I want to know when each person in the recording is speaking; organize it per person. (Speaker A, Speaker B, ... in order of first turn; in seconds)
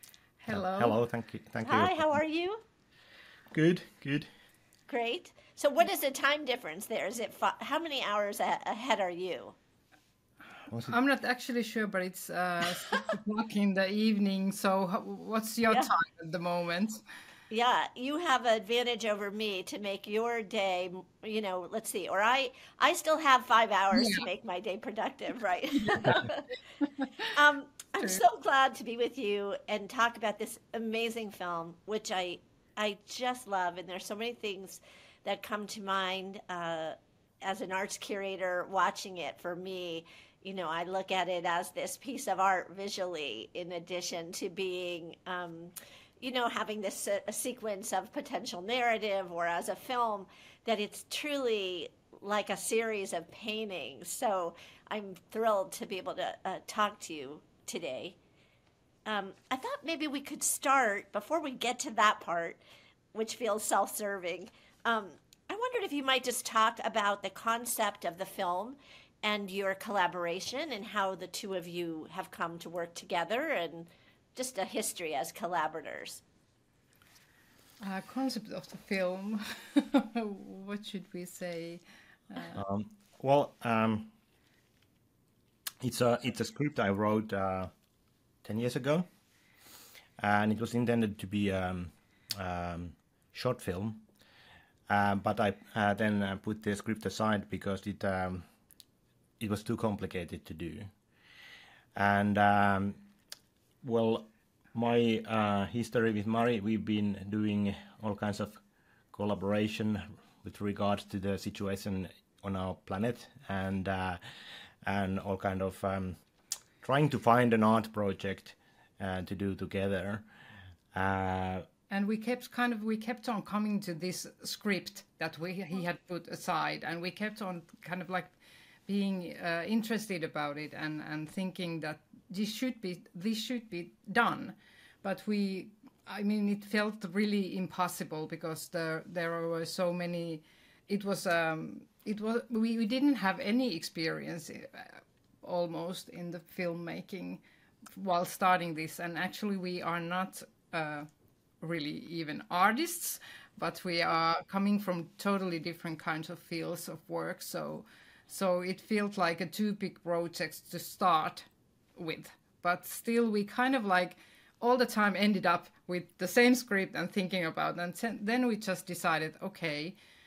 Speaker A: 0.4-1.0, 10.8-17.0, 23.9-24.2, 25.7-26.3, 26.9-27.3, 77.8-82.6, 121.9-128.3, 128.9-147.4, 147.9-151.1, 151.6-169.9
Speaker B: 0.5-2.2, 3.5-4.3, 10.7-10.9, 82.5-84.1, 85.8-87.7, 88.4-89.1, 90.2-94.0, 94.9-98.5, 99.4-100.9, 102.0-103.0, 103.8-108.6, 109.1-114.2, 114.8-116.2, 116.8-120.2, 120.9-121.7
Speaker C: 1.6-2.6, 4.9-9.6, 17.5-26.5, 27.3-58.1, 59.0-62.6, 63.1-76.2